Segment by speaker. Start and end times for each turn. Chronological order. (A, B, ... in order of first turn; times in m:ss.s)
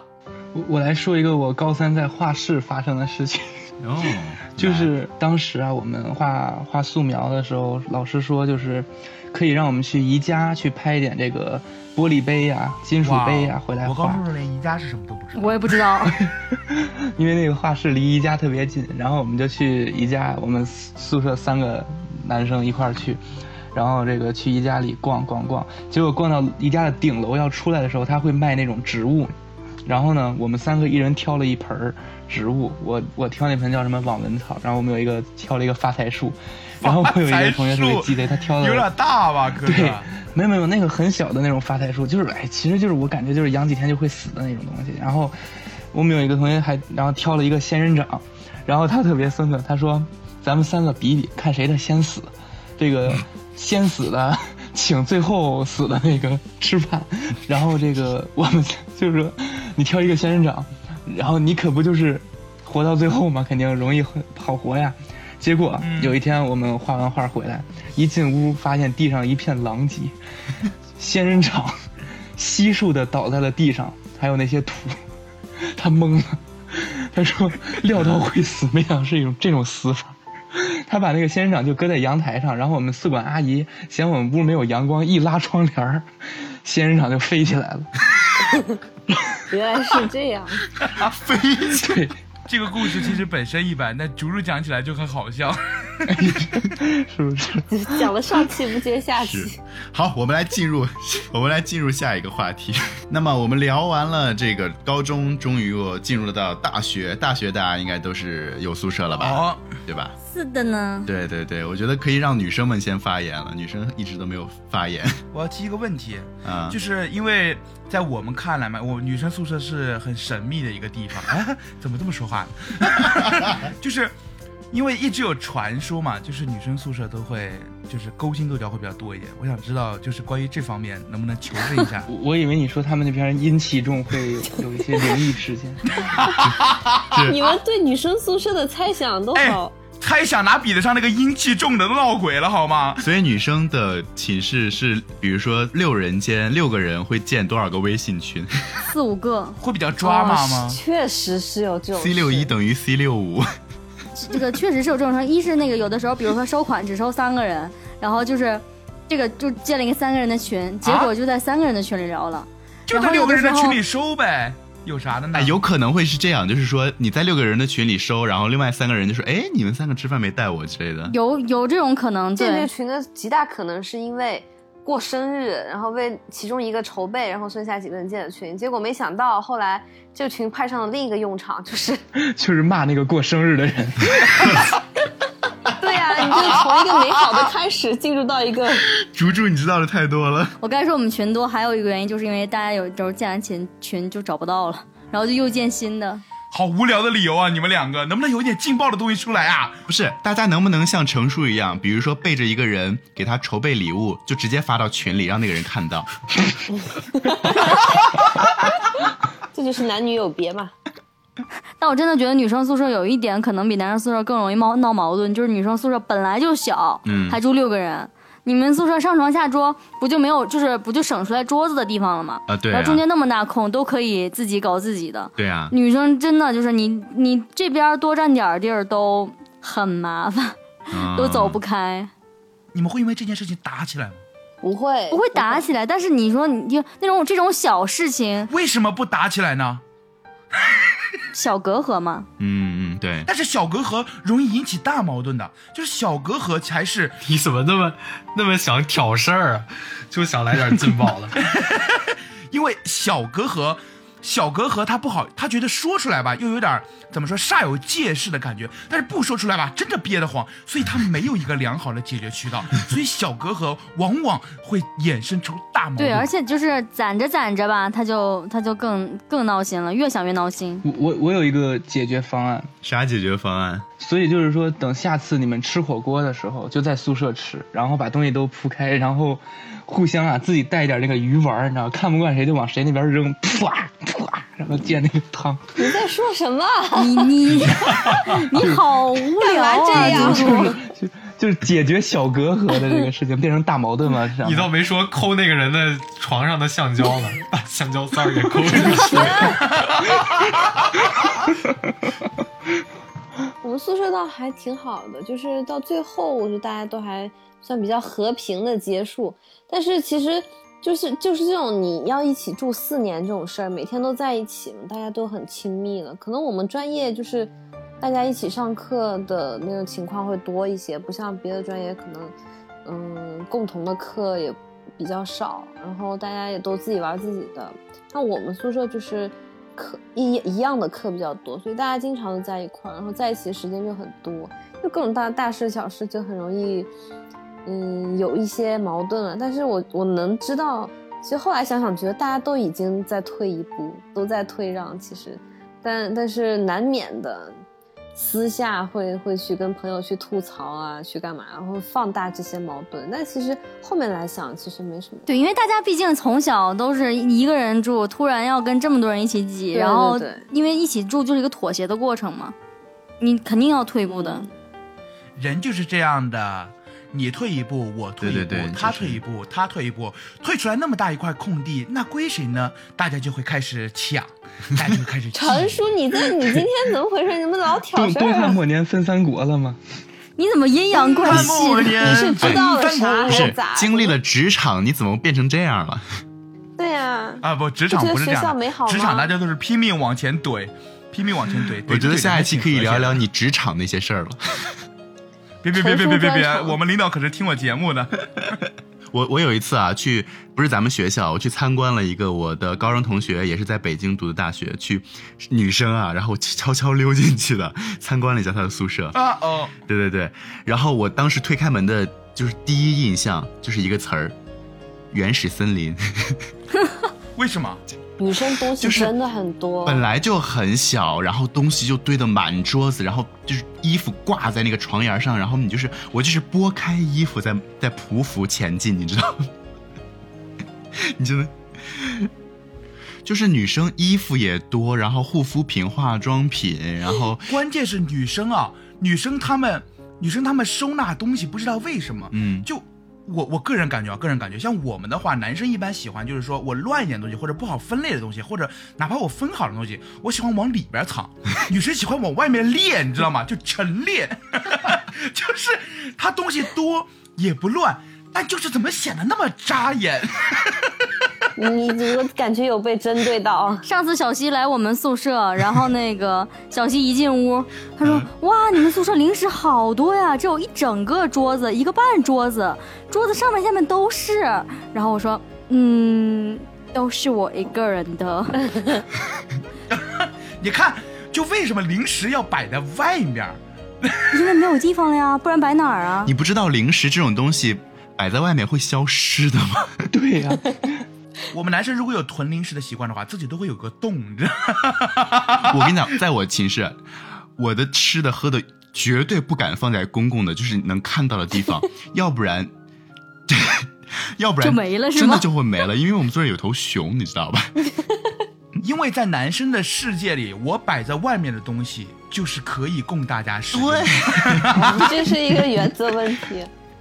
0:00.5-0:03.6 A
0:03.8-0:04.9 B
0:04.6-0:14.2 A
0:13.0-0:15.7 C
0:15.3-0:16.2 D
0:16.0-0:23.2 A
0:23.7-0:29.3 A
0:29.8-0:38.9 A
0:36.8-0:40.1 C
0:39.6-0:45.3 A
0:45.9-1:10.2 A
1:05.8-1:06.2 C
1:11.0-1:11.8 A
1:12.3-1:15.0 A
1:15.6-1:26.1 A
1:26.6-1:27.9 A
1:29.5-1:30.7 E
1:31.0-1:32.0 B
1:31.7-1:32.2 A
1:32.5-1:36.3 C
1:36.1-1:38.1 A
1:37.7-1:39.5 E
1:39.2-1:50.2 B
1:49.2-1:49.6 C
1:50.2-1:51.1 D
1:51.1-1:55.2 B
1:55.3-2:04.1 C
1:56.4-1:56.8 B
2:04.7-2:12.1 C
2:12.0-2:16.0 A
2:16.0-2:17.1 C
2:17.1-2:17.5 B
2:17.2-2:19.7 E
2:19.3-2:23.0 C
2:23.0-2:28.6 B
2:28.8-2:29.6 D
2:29.6-2:30.8 C
2:30.0-2:32.5 E
2:32.0-2:33.5 B
2:34.2-2:43.8 D
2:40.8-2:41.1 C
2:42.9-2:45.6 C
2:45.3-2:51.1 B
2:51.1-2:52.7 D
2:52.4-3:02.0 E
3:02.2-3:04.6 A
3:05.8-3:08.9 E
3:08.9-3:10.6 B
3:10.6-3:16.2 D
3:16.5-3:19.8 C
3:19.9-3:26.1 B
3:27.1-3:27.7 E
3:29.5-3:30.7 E
3:31.8-3:52.1 D
3:37.0-3:37.4 B
3:42.5-3:43.0 B
3:45.4-3:45.7 B
3:50.9-3:51.6 B
3:52.7-3:54.2 C
3:54.6-3:55.7 E
3:55.1-3:58.5 D
3:58.5-3:59.8 C
4:01.3-4:02.3 D
4:02.4-4:03.3 B
4:03.2-4:07.2 C
4:07.2-4:11.4 F
4:11.4-4:26.3 C
4:26.0-4:30.8 D
4:30.8-4:32.7 A
4:32.8-4:33.8 B
4:34.0-4:46.0 A
4:45.8-4:47.3 E
4:46.9-4:50.7 D
4:48.5-4:48.8 A
4:49.3-4:50.8 E
4:49.9-4:54.7 A
4:54.4-5:00.1 F
4:58.9-4:59.6 E
5:03.6-5:22.3 E
5:22.8-5:36.9 E
5:37.6-5:47.5 E
5:48.2-5:55.3 E
5:55.2-6:02.5 D
5:59.7-6:00.4 E
6:03.2-6:04.5 D
6:04.1-6:04.5 E
6:05.4-6:15.8 C
6:08.2-6:09.2 B
6:15.3-6:18.6 E
6:17.9-6:19.8 A
6:20.4-6:21.9 D
6:21.2-6:23.5 C
6:21.2-6:22.6 B
6:22.0-6:24.1 E
6:23.2-6:26.0 B
6:26.8-6:29.3 E
6:27.4-6:33.2 C
6:31.9-6:34.7 B
6:35.6-6:38.5 C
6:35.7-6:36.8 E
6:39.1-6:49.2 B
6:49.1-6:49.7 C
6:49.9-6:54.3 B
6:55.1-6:56.4 B
6:57.4-6:57.8 C
6:58.2-7:00.0 E
6:58.8-6:59.1 B
6:59.8-7:09.5 B
7:11.0-7:12.3 B
7:13.2-7:17.5 B
7:17.4-7:40.9 C
7:22.3-7:22.7 B
7:41.6-7:43.8 E
7:43.8-7:58.9 D
7:59.9-8:04.5 C
8:04.3-8:06.3 D
8:06.2-8:09.9 B
8:10.1-8:11.0 A
8:11.5-8:15.9 C
8:15.6-8:17.0 B
8:17.6-8:22.7 B
8:23.5-8:27.8 B
8:24.6-8:25.5 D
8:28.8-8:35.1 C
8:33.7-8:35.5 B
8:34.7-8:36.7 E